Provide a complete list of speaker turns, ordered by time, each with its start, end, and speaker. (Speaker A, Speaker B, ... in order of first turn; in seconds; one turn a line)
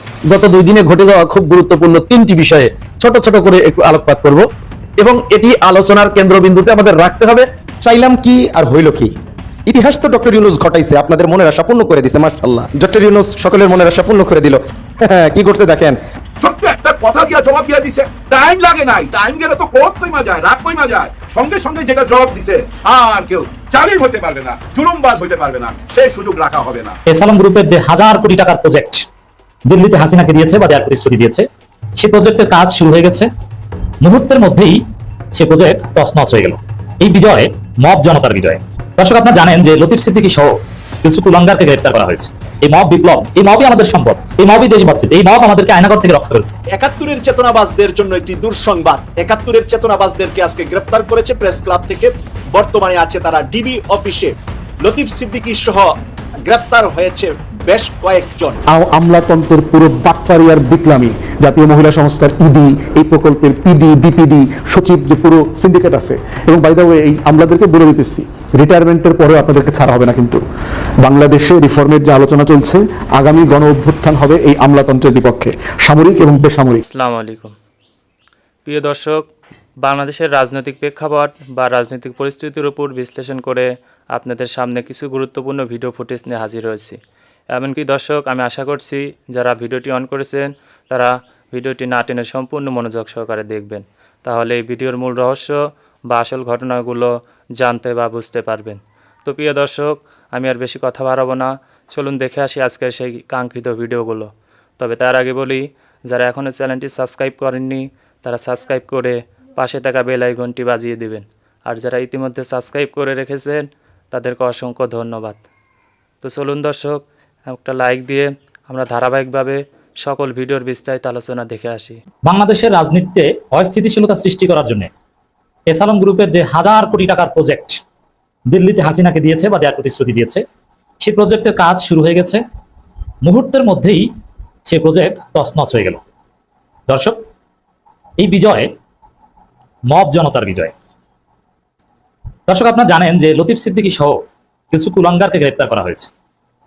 Speaker A: 0.3-4.4
Speaker A: 5.0-7.5
Speaker B: 7.8-9.1
Speaker B: 9.7-16.0
Speaker C: 16.4-26.9
Speaker D: 27.1-29.1
Speaker D: 29.6-31.4
Speaker D: 32.0-33.3
Speaker D: 34.0-34.8
Speaker D: 35.3-46.6
Speaker E: 46.7-55.9
Speaker E: 56.4-58.6
Speaker F: 58.7-70.4
Speaker F: 71.0-76.8
Speaker G: 76.8-77.5
Speaker G: 78.6-79.3
Speaker G: 79.8-87.0
Speaker G: 87.5-115.4
Speaker G: 116.2-122.0
Speaker D: 122.2-124.9
Speaker D: 125.7-127.8
Speaker D: 128.5-130.4
Speaker D: 131.0-132.4
Speaker D: 133.2-134.1
Speaker D: 134.7-136.0
Speaker D: 136.9-137.2
Speaker D: 138.2-138.7
Speaker D: 139.9-140.7
Speaker D: 142.5-144.2
Speaker D: 144.7-146.1